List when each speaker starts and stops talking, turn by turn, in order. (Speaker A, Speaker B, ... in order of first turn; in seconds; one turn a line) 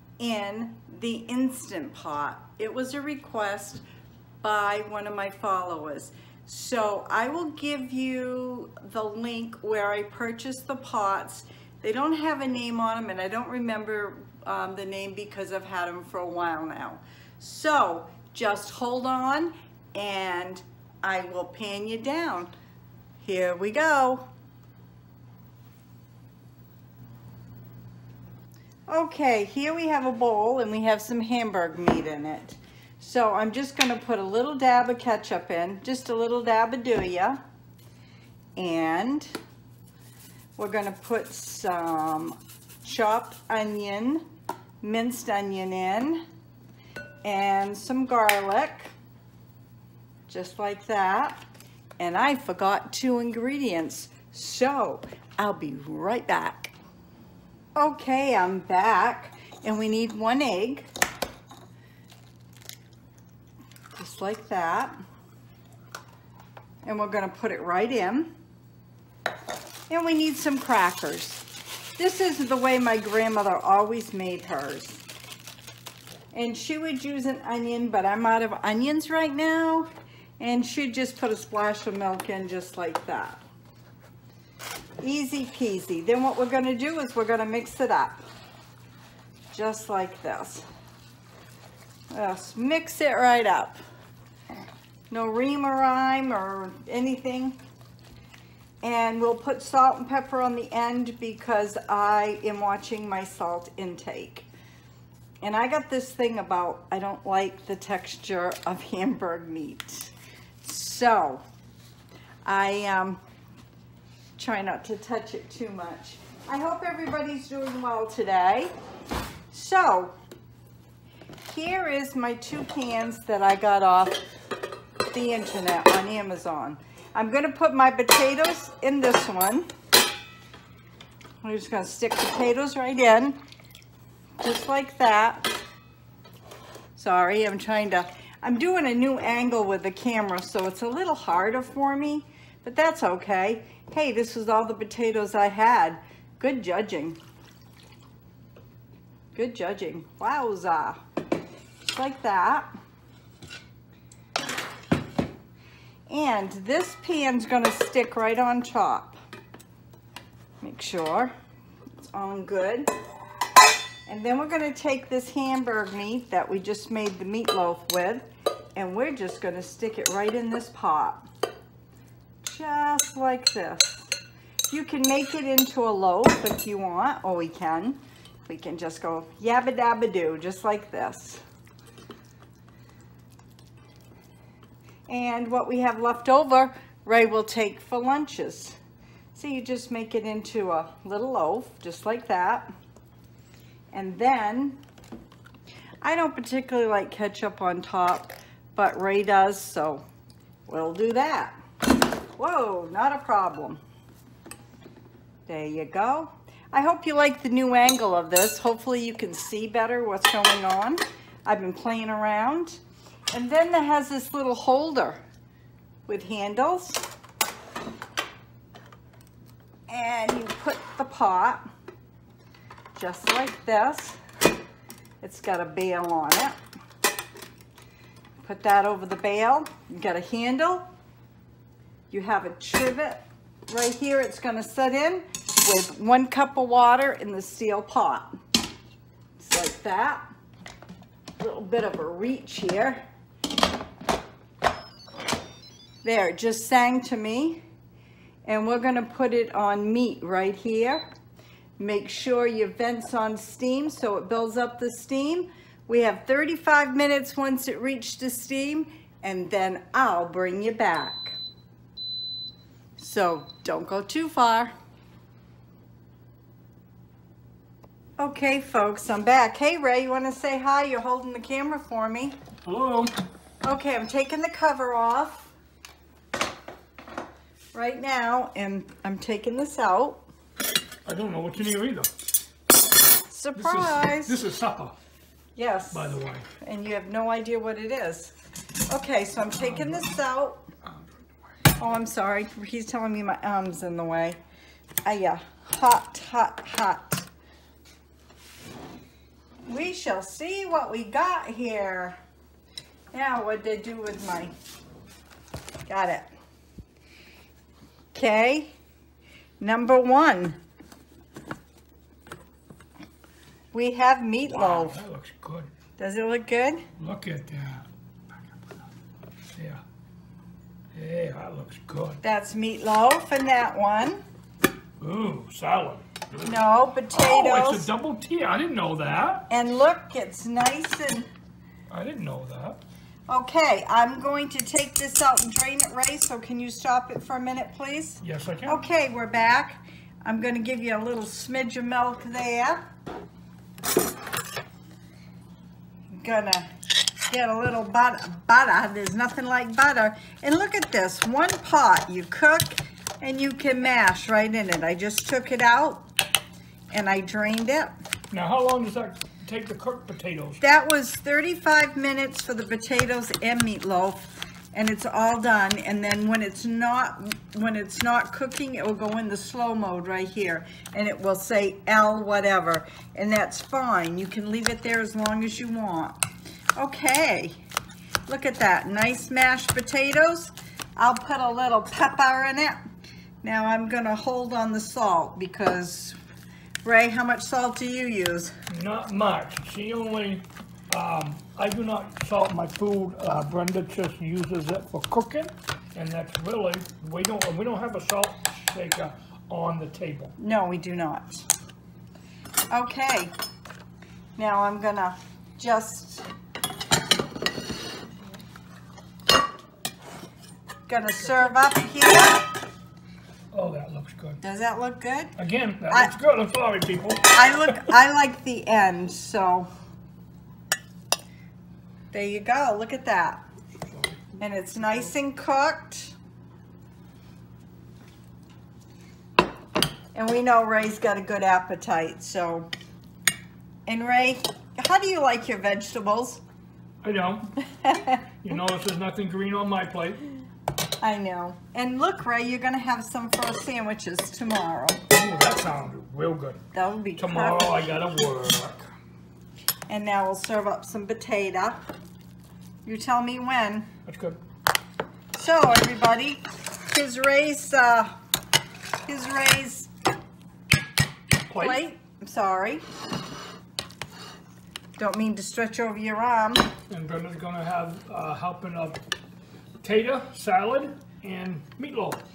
Speaker A: 0.2-3.8
Speaker A: 4.4-22.5
Speaker A: 23.2-24.2
Speaker A: 28.9-37.4
Speaker A: 38.5-39.3
Speaker A: 40.5-44.2
Speaker A: 44.8-46.2
Speaker A: 47.2-48.9
Speaker A: 50.3-51.4
Speaker A: 52.0-56.8
Speaker A: 57.8-60.9
Speaker A: 64.0-64.9
Speaker A: 66.8-68.3
Speaker A: 69.9-71.4
Speaker A: 72.0-75.0
Speaker A: 76.3-79.9
Speaker A: 80.4-83.4
Speaker A: 85.0-88.2
Speaker A: 89.5-90.7
Speaker A: 92.1-93.8
Speaker A: 95.1-97.6
Speaker A: 98.8-104.5
Speaker A: 105.4-111.4
Speaker A: 112.4-113.2
Speaker A: 114.4-118.7
Speaker A: 119.5-120.1
Speaker A: 121.5-124.2
Speaker A: 125.1-129.7
Speaker A: 131.4-133.4
Speaker A: 134.4-135.5
Speaker A: 136.9-147.2
Speaker A: 149.3-151.0
Speaker A: 151.8-152.7
Speaker A: 156.1-159.2
Speaker A: 160.6-161.3
Speaker A: 162.0-162.9
Speaker A: 164.1-171.3
Speaker A: 172.4-174.1
Speaker A: 174.7-181.4
Speaker A: 185.1-188.8
Speaker A: 189.3-192.7
Speaker A: 193.9-194.8
Speaker A: 196.0-200.0
Speaker A: 200.7-201.6
Speaker A: 202.3-203.8
Speaker A: 205.5-212.8
Speaker A: 213.3-215.2
Speaker A: 216.1-217.0
Speaker A: 219.9-221.7
Speaker A: 222.9-224.2
Speaker A: 225.2-226.6
Speaker A: 228.4-230.8
Speaker A: 232.1-238.3
Speaker A: 239.4-240.2
Speaker A: 241.4-243.0
Speaker A: 246.0-247.6
Speaker A: 248.4-251.1
Speaker A: 251.8-261.4
Speaker A: 263.0-264.7
Speaker A: 268.2-272.4
Speaker B: 272.6-273.1
Speaker A: 273.6-275.5
Speaker A: 277.7-280.2
Speaker B: 281.1-282.1
Speaker A: 283.3-284.4
Speaker B: 283.6-285.0
Speaker A: 285.5-288.3
Speaker B: 285.9-286.5
Speaker A: 288.9-290.7
Speaker A: 291.8-294.4
Speaker A: 295.0-297.3
Speaker A: 299.6-302.2
Speaker A: 303.1-304.5
Speaker A: 305.9-306.3
Speaker A: 308.1-308.7
Speaker A: 309.6-310.6
Speaker A: 313.7-315.0
Speaker B: 314.5-315.7
Speaker A: 316.0-316.8
Speaker B: 317.0-317.9
Speaker B: 319.6-319.8
Speaker B: 320.9-322.2
Speaker A: 322.2-324.2
Speaker B: 325.0-326.1
Speaker A: 326.4-327.9
Speaker B: 327.1-329.5
Speaker A: 329.5-331.3
Speaker B: 331.9-332.8
Speaker A: 333.3-342.8
Speaker B: 338.2-338.8
Speaker A: 346.1-346.7
Speaker A: 347.3-356.1
Speaker A: 356.9-357.9
Speaker B: 358.3-360.6
Speaker A: 360.6-376.2
Speaker A: 376.8-377.6
Speaker A: 378.3-382.8
Speaker A: 383.4-386.1
Speaker A: 386.8-388.5
Speaker B: 388.7-400.3
Speaker A: 400.4-401.5
Speaker A: 402.7-403.3
Speaker A: 404.4-406.3
Speaker A: 410.9-412.5
Speaker B: 413.5-414.4
Speaker A: 414.4-415.4
Speaker B: 415.4-417.8
Speaker A: 417.3-419.7
Speaker A: 422.1-423.4
Speaker B: 423.9-424.4
Speaker A: 424.4-426.1
Speaker A: 430.1-432.7
Speaker A: 433.9-436.4
Speaker B: 437.0-437.6
Speaker A: 437.6-438.3
Speaker B: 438.4-440.3
Speaker A: 441.0-445.0
Speaker B: 445.1-446.6
Speaker A: 446.7-447.7
Speaker B: 447.2-448.9
Speaker A: 449.9-451.8
Speaker A: 452.8-453.9
Speaker B: 454.1-454.4
Speaker A: 455.3-458.1
Speaker A: 459.1-459.9
Speaker B: 461.5-461.8
Speaker A: 461.6-462.8
Speaker A: 465.0-466.7
Speaker B: 466.9-469.0
Speaker B: 469.8-472.2